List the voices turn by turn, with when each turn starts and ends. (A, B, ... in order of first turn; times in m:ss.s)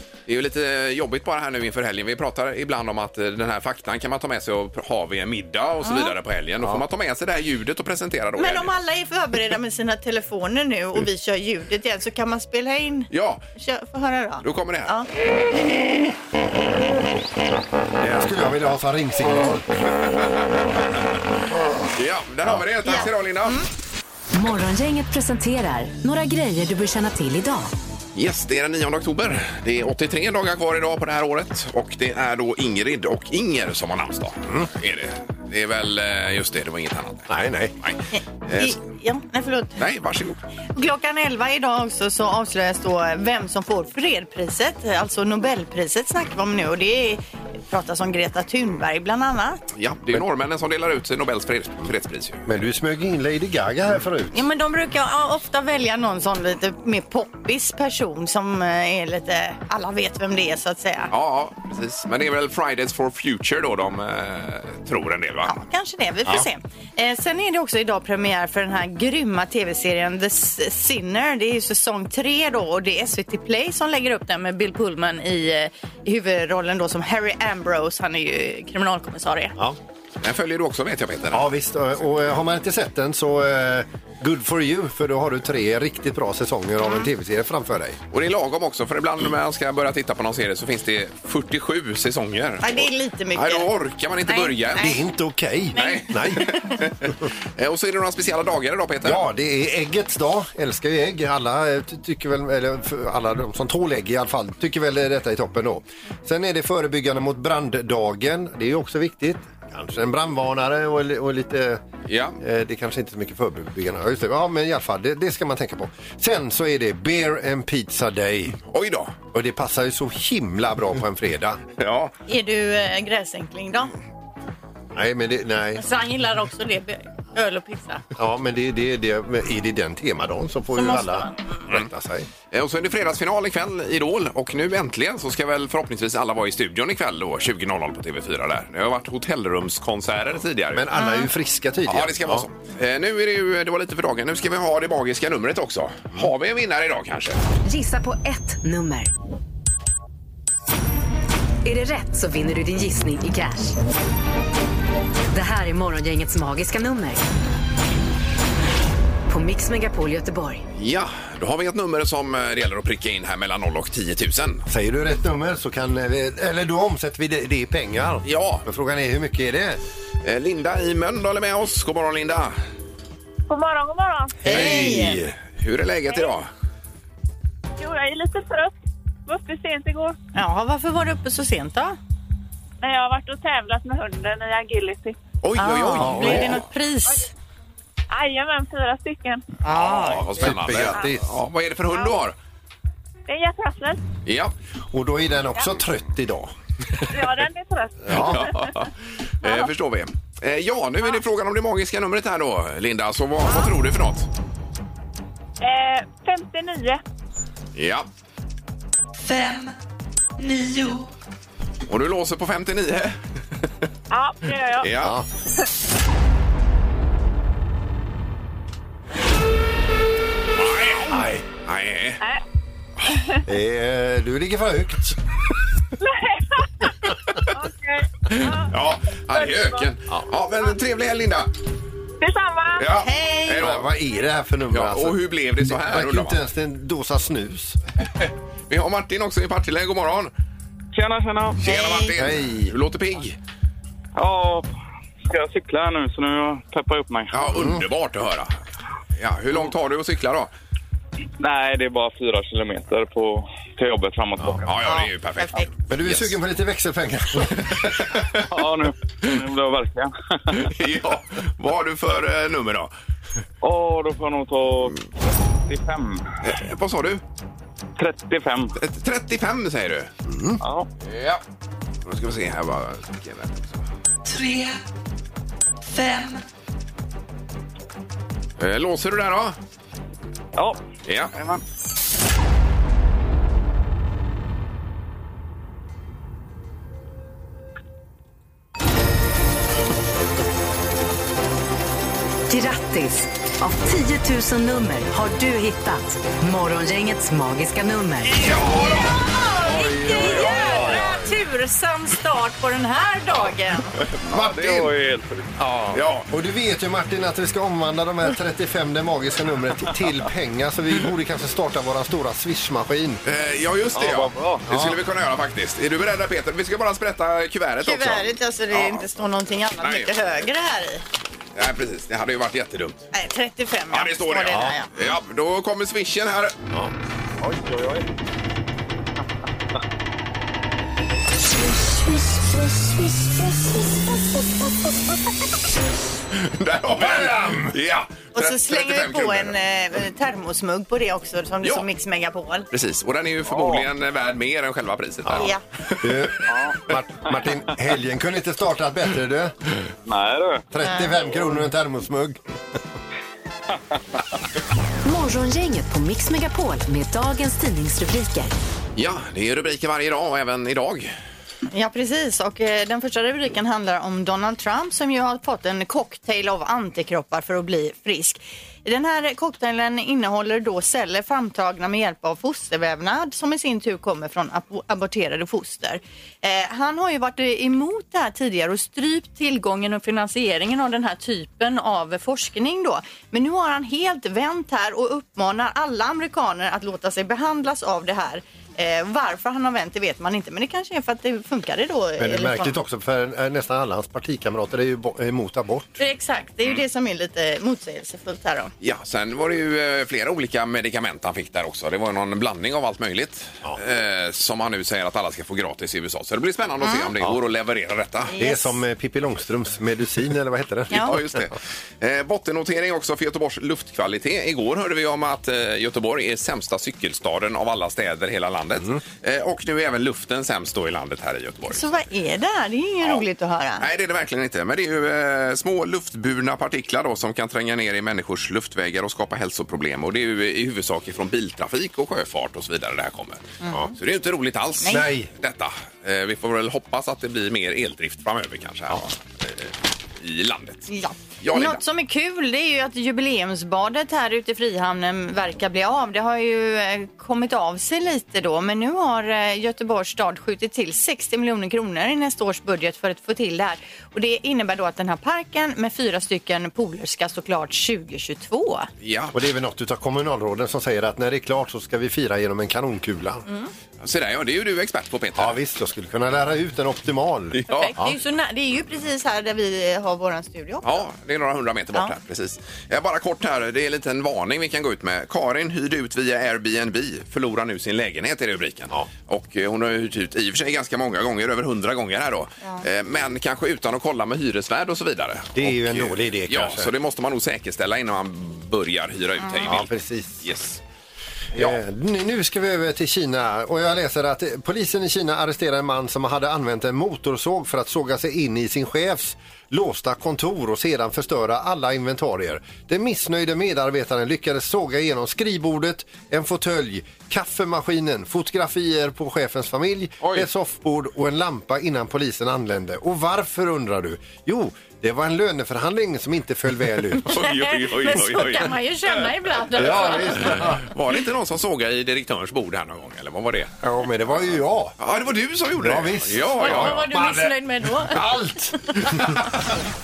0:00.3-0:08.7 A
0:05.8-0:06.2 B
0:08.4-0:15.1 B
0:13.1-0:13.4 A
0:14.4-0:15.0 A
0:18.0-0:19.9 C
0:22.0-0:23.6 A
0:22.8-0:23.7 B
0:24.3-0:27.7 D
0:28.2-0:37.3 A
0:37.3-0:37.8 C
0:37.8-0:38.8 A
0:38.1-0:39.8 B
0:39.8-0:40.4 A
0:40.8-0:49.6 B
0:49.7-0:52.5 A
0:52.5-0:54.4 C
0:54.3-1:01.1 B
1:01.1-1:05.6 A
1:05.4-1:19.6 B
1:20.2-1:21.5 A
1:21.3-1:28.0 C
1:28.1-1:35.0 A
1:32.6-1:33.7 B
1:34.3-1:35.0 B
1:34.8-1:36.6 C
1:35.7-1:36.7 B
1:35.7-1:39.3 A
1:39.0-1:51.8 C
1:52.1-1:52.4 A
1:52.4-1:58.6 C
1:58.7-1:59.2 A
1:59.3-2:01.6 C
2:01.8-2:02.1 A
2:02.3-2:03.9 B
2:04.9-2:05.8 C
2:05.8-2:08.0 B
2:08.2-2:12.3 C
2:10.7-2:11.7 B
2:12.5-2:20.9 A
2:20.7-2:22.5 C
2:20.9-2:21.3 B
2:21.9-2:27.4 A
2:27.6-2:29.1 D
2:31.6-2:33.8 D
2:35.3-2:37.2 D
2:39.3-2:40.6 D
2:40.8-2:44.6 A
2:44.7-2:49.8 C
2:48.2-2:48.6 A
2:50.2-2:52.6 A
2:53.5-2:54.4 E
2:54.4-2:55.2 B
2:54.4-2:55.4 C
2:54.5-2:56.5 A
2:57.8-2:58.7 E
2:59.3-3:00.2 E
3:00.4-3:02.0 B
3:02.8-3:05.2 E
3:05.4-3:06.6 A
3:05.6-3:07.3 B
3:06.0-3:06.6 C
3:08.1-3:09.4 E
3:09.7-3:11.4 C
3:09.7-3:12.4 A
3:10.7-3:11.0 E
3:13.3-3:14.0 E
3:14.2-3:14.5 A
3:14.9-3:16.5 C
3:17.1-3:18.8 E
3:18.0-3:18.5 C
3:18.1-3:24.3 A
3:19.4-3:19.7 E
3:25.6-3:27.0 E
3:27.8-3:28.1 A
3:29.2-3:29.7 F
3:30.4-3:31.1 F
3:31.9-3:33.2 A
3:34.1-3:34.9 E
3:34.8-3:35.2 A
3:35.0-3:35.3 C
3:40.6-3:42.2 A
3:41.1-3:41.4 C
3:43.4-3:45.2 C
3:46.0-3:48.7 E
3:48.3-3:51.5 A
3:49.4-3:49.8 E
3:52.2-3:52.9 E
3:52.8-3:53.9 A
3:53.0-3:53.7 B
3:53.6-3:57.8 C
3:54.7-3:56.4 A
3:58.2-4:00.3 A
4:00.9-4:01.6 G
4:01.6-4:03.4 A
4:01.6-4:02.1 B
4:02.2-4:02.8 C
4:04.2-4:04.7 G
4:05.2-4:07.5 G
4:07.3-4:08.5 A
4:07.6-4:07.8 C
4:09.2-4:10.5 A
4:11.4-4:14.7 G
4:14.7-4:16.4 A
4:14.8-4:15.7 B
4:15.9-4:17.7 C
4:17.6-4:18.5 A
4:18.5-4:20.7 G
4:20.6-4:22.9 A
4:23.6-4:25.0 G
4:25.7-4:26.2 G
4:26.4-4:27.2 A
4:28.0-4:28.8 G
4:28.8-4:30.1 A
4:30.3-4:30.6 C
4:30.6-4:30.9 G
4:31.0-4:31.4 A
4:32.1-4:33.8 A
4:34.2-4:34.8 F
4:35.9-4:36.4 F
4:38.6-4:39.6 A
4:41.1-4:41.3 A
4:41.4-4:41.6 G
4:52.5-4:58.4 D
4:58.3-4:59.2 A
4:59.0-5:03.9 B
5:00.1-5:01.2 C
5:04.3-5:04.9 A
5:04.3-5:04.8 C
5:04.4-5:05.5 G
5:05.6-5:13.2 C
5:05.9-5:06.3 A
5:13.2-5:19.1 A
5:13.9-5:14.7 G
5:14.7-5:15.0 C
5:17.8-5:21.0 B
5:19.8-5:20.3 A
5:21.6-5:23.0 A
5:23.1-5:24.9 B
5:23.9-5:26.6 A
5:27.4-5:28.0 G
5:36.4-5:39.6 A
5:37.0-5:37.7 C
5:38.4-5:42.7 B
5:42.7-5:46.1 A
5:43.5-5:43.9 G
5:45.2-5:45.5 C
5:45.4-5:45.6 B
5:46.0-5:49.5 C
5:46.5-5:47.4 G
5:50.1-5:50.6 G
5:50.7-5:52.4 C
5:50.8-5:51.1 B
5:55.0-5:58.5 D
5:59.0-6:01.1 A
6:01.7-6:32.8 B
6:32.2-6:36.0 C
6:36.0-6:38.7 B
6:38.8-6:48.3 A
6:46.8-6:47.1 B
6:48.3-6:48.8 B
6:48.4-6:51.3 C
6:50.9-7:01.9 A
7:01.7-7:03.8 B
7:03.8-7:13.4 A
7:13.6-7:13.9 B
7:14.0-7:20.9 A
7:14.8-7:15.3 C
7:20.9-7:38.9 B
7:21.4-7:21.8 A
7:39.0-7:39.4 A
7:39.3-7:43.5 C
7:44.0-7:45.6 A
7:45.4-7:48.2 C
7:47.5-7:48.0 A
7:47.7-7:51.0 B
7:50.8-8:09.9 A
8:05.6-8:06.9 C
8:09.6-8:10.5 C
8:10.4-8:10.8 A
8:11.6-8:37.4 C
8:37.2-8:43.7 A
8:37.3-8:40.6 B
8:39.8-8:40.9 C
8:43.8-8:45.0 C
8:45.0-8:47.1 A
8:45.8-8:49.0 C
8:46.6-8:48.3 B